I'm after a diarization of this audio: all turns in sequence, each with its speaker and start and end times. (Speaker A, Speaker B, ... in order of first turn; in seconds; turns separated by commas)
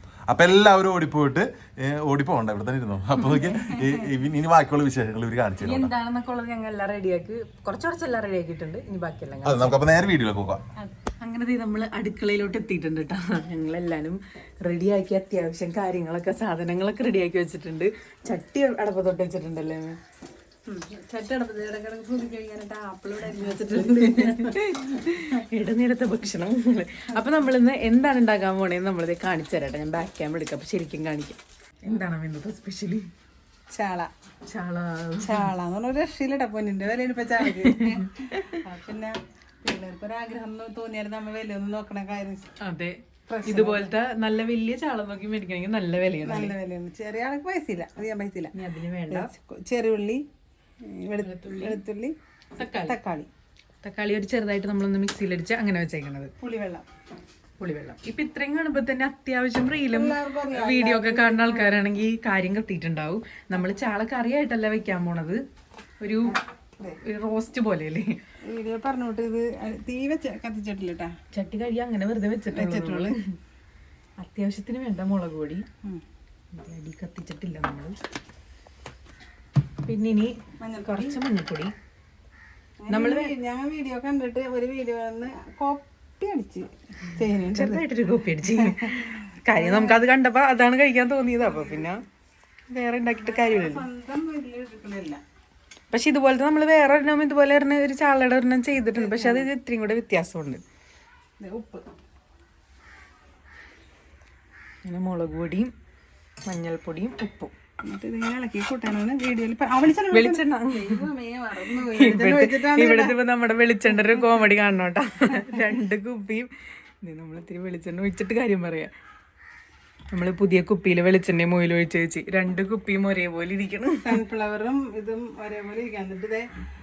Speaker A: 0.3-5.9, Speaker B: 3.2-4.1, Speaker C: 5.6-9.8, Speaker A: 9.4-10.6, Speaker C: 11.2-20.0, Speaker B: 20.7-24.5, Speaker C: 23.7-33.0, Speaker B: 27.1-27.5, Speaker B: 33.7-34.1, Speaker C: 34.5-35.5, Speaker B: 35.2-42.5, Speaker C: 37.8-38.5, Speaker C: 42.6-46.5, Speaker B: 43.3-43.9, Speaker B: 46.2-48.5, Speaker C: 48.5-49.3, Speaker B: 49.1-50.2, Speaker B: 50.9-53.3, Speaker C: 51.2-51.8, Speaker C: 52.6-52.9, Speaker C: 53.8-56.3, Speaker B: 56.4-56.8, Speaker C: 57.6-65.4, Speaker B: 59.9-61.8, Speaker C: 66.0-66.3, Speaker B: 66.3-67.0, Speaker C: 67.0-68.1, Speaker B: 68.5-71.1, Speaker C: 71.3-73.2, Speaker B: 72.5-73.1, Speaker C: 74.2-75.6, Speaker C: 76.5-77.9, Speaker C: 79.8-81.7, Speaker B: 80.6-81.2, Speaker B: 82.8-87.8, Speaker C: 82.9-83.3, Speaker C: 87.5-88.8, Speaker B: 88.6-90.0, Speaker C: 89.5-92.0, Speaker B: 91.4-91.9, Speaker C: 92.7-93.8, Speaker B: 93.2-95.2, Speaker C: 95.9-100.6, Speaker B: 99.0-99.5, Speaker B: 101.4-101.8, Speaker C: 104.8-105.7, Speaker C: 106.5-107.5, Speaker B: 107.8-113.2, Speaker C: 110.1-111.0, Speaker C: 111.7-116.5, Speaker B: 114.0-114.2, Speaker C: 117.0-118.9, Speaker C: 120.1-124.1, Speaker B: 124.0-126.5